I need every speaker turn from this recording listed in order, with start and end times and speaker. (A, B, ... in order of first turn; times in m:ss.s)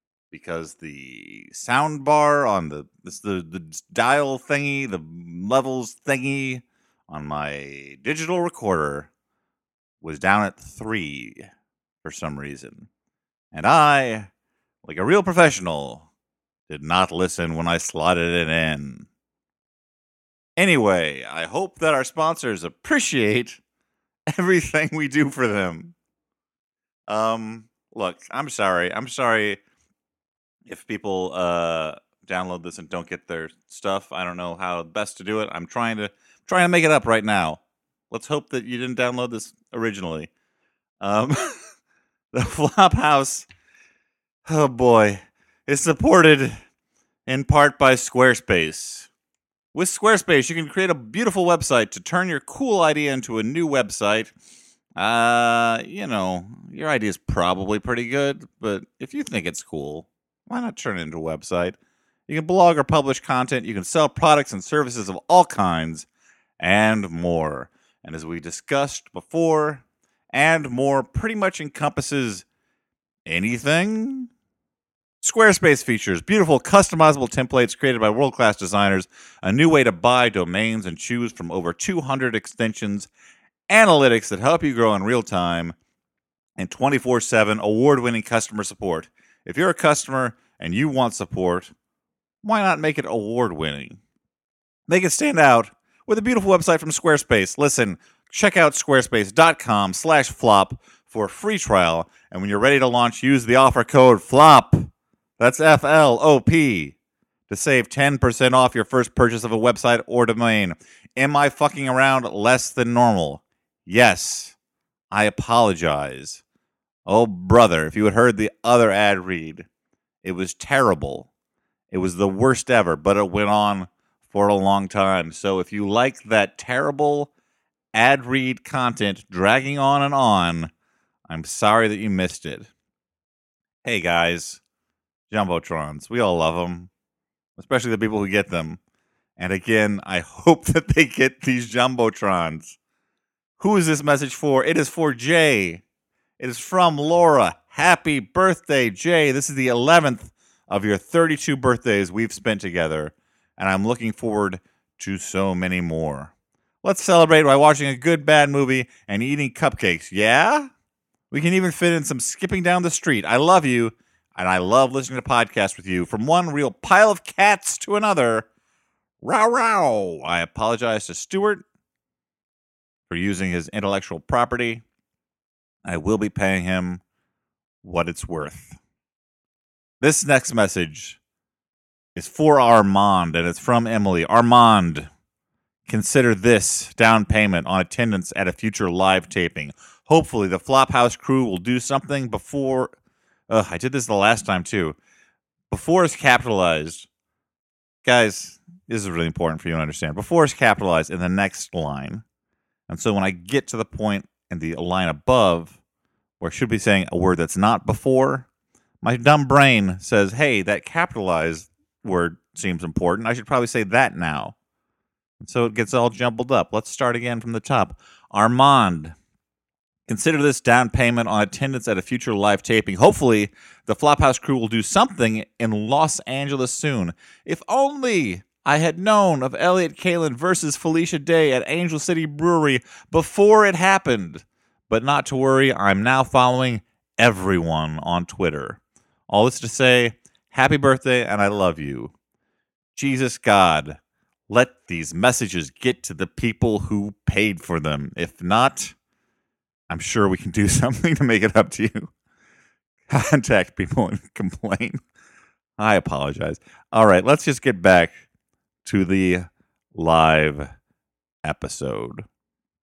0:00.3-0:09.1 A
0:10.0-0:11.5 A
0:12.0-0:12.9 A
0:13.5-0:14.3 A
0:14.8-0:16.1 A
0:16.7-0:19.1 A
0:20.6-0:23.6 A
0:24.3-0:25.9 A
0:27.1-0:29.6 A
0:30.7-0:37.6 A
0:38.1-0:40.3 A
0:41.0-0:41.6 A
0:42.3-0:43.5 A
0:44.5-0:46.6 A
0:47.3-0:49.1 A
0:49.7-0:54.3 A
0:55.0-1:01.8 A
1:02.3-1:06.1 A
1:06.6-1:12.4 A
1:13.3-1:14.3 A
1:15.2-1:23.1 A
1:23.7-1:25.8 A
1:26.6-1:31.7 A
1:32.4-1:34.0 A
1:34.9-1:47.0 A
1:47.5-1:54.6 A
1:55.1-1:56.4 A
1:57.1-1:59.7 A
2:00.2-2:01.3 A
2:01.9-2:07.3 A
2:07.9-2:10.7 A
2:11.3-2:12.7 A
2:13.8-2:14.6 A
2:15.3-2:16.9 A
2:17.6-2:18.8 A
2:19.4-2:22.8 A
2:23.6-2:25.8 A
2:26.4-2:36.3 A
2:36.8-2:40.7 A
2:41.3-2:48.5 A
2:49.2-2:51.6 A
2:53.1-2:54.8 A
2:55.8-2:57.0 A
2:57.8-2:58.8 A
3:00.0-3:01.2 A
3:02.2-3:05.1 A
3:05.9-3:12.9 A
3:13.5-3:15.0 A
3:15.7-3:17.1 A
3:18.0-3:22.2 A
3:22.9-3:25.8 A
3:26.4-3:28.5 A
3:29.0-3:34.6 A
3:35.4-3:39.1 A
3:40.1-4:02.1 A
4:03.0-4:09.0 A
4:09.9-4:12.1 A
4:13.1-4:15.0 A
4:15.8-4:18.2 A
4:18.8-4:20.7 A
4:21.4-4:22.3 A